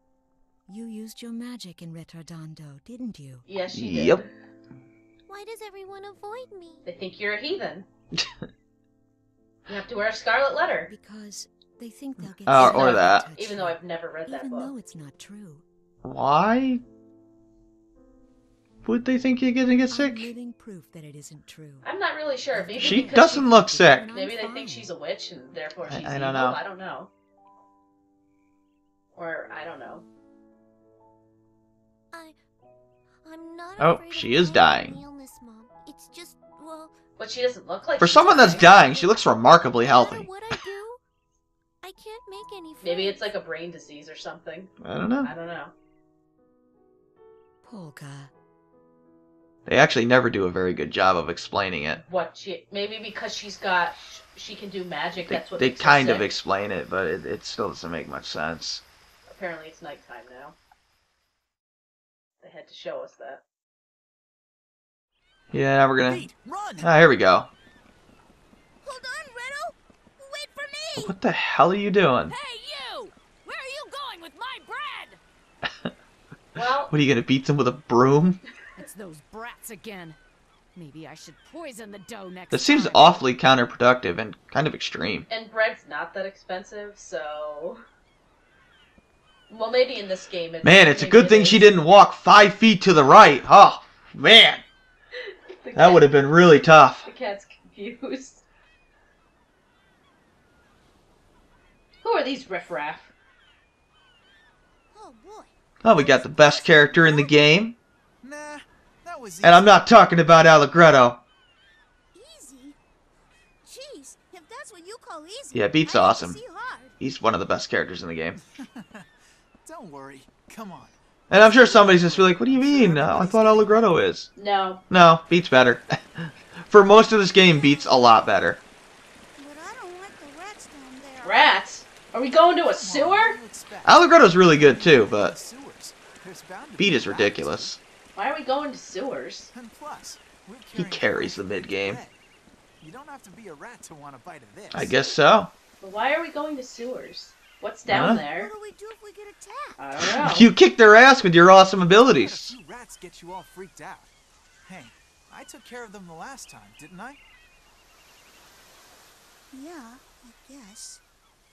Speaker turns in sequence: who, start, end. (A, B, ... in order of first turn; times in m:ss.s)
0:00.7-0:03.5 A
0:03.5-0:04.3 B
0:03.7-0:04.2 C
0:05.3-0:06.8 D
0:06.8-0:07.9 B
0:09.7-0:10.9 B
0:10.9-0:15.6 A
0:12.4-0:13.3 C
0:12.5-0:14.7 B
0:16.0-0:16.8 C
0:18.8-0:20.3 C
0:19.9-0:21.9 A
0:21.8-0:23.5 B
0:22.5-0:24.9 A
0:22.8-0:24.1 C
0:24.1-0:27.1 B
0:25.9-0:26.6 C
0:29.2-0:30.0 B
0:33.2-0:37.0 D
0:33.8-0:35.0 C
0:37.2-0:38.7 B
0:38.0-0:40.3 C
0:38.7-0:39.3 D
0:39.8-0:41.0 D
0:41.8-0:43.3 D
0:42.8-0:44.7 B
0:44.8-0:45.3 C
0:45.2-0:45.7 B
0:47.6-0:48.3 A
0:49.7-0:52.0 C
0:52.0-0:56.3 B
0:55.3-0:58.8 C
0:59.3-1:00.6 B
1:02.4-1:03.4 B
1:05.5-1:06.3 C
1:06.0-1:06.9 E
1:06.8-1:07.5 C
1:08.8-1:11.1 D
1:11.0-1:12.4 C
1:12.3-1:15.2 F
1:16.6-1:16.9 B
1:16.9-1:18.4 C
1:18.8-1:20.2 F
1:20.8-1:23.2 F
1:22.5-1:25.3 C
1:25.3-1:27.8 B
1:29.5-1:31.7 B
1:30.6-1:34.6 C
1:35.6-1:36.1 B
1:35.8-1:37.1 C
1:37.0-1:38.4 B
1:42.0-1:43.1 B
1:44.9-1:47.4 D
1:45.8-1:47.8 C
1:48.2-1:49.8 E
1:49.4-1:51.2 C
1:52.1-1:52.8 D
1:53.6-1:57.0 D
1:55.5-1:56.4 C
1:57.0-1:58.4 C
1:58.4-1:59.1 E
1:59.6-2:03.9 E
2:01.3-2:04.3 C
2:04.4-2:04.8 B
2:04.9-2:08.6 C
2:07.5-2:08.1 D
2:09.4-2:11.5 D
2:11.2-2:13.4 B
2:12.7-2:17.7 E
2:13.8-2:15.3 C
2:16.8-2:17.8 C
2:18.2-2:19.5 B
2:19.5-2:22.2 E
2:20.7-2:22.0 C
2:22.8-2:25.0 E
2:24.7-2:25.5 C
2:25.8-2:28.5 B
2:27.9-2:28.2 C
2:28.0-2:29.8 D
2:29.8-2:30.5 B
2:30.0-2:32.6 C
2:32.1-2:34.2 E
2:34.7-2:37.2 E
2:39.5-2:41.0 D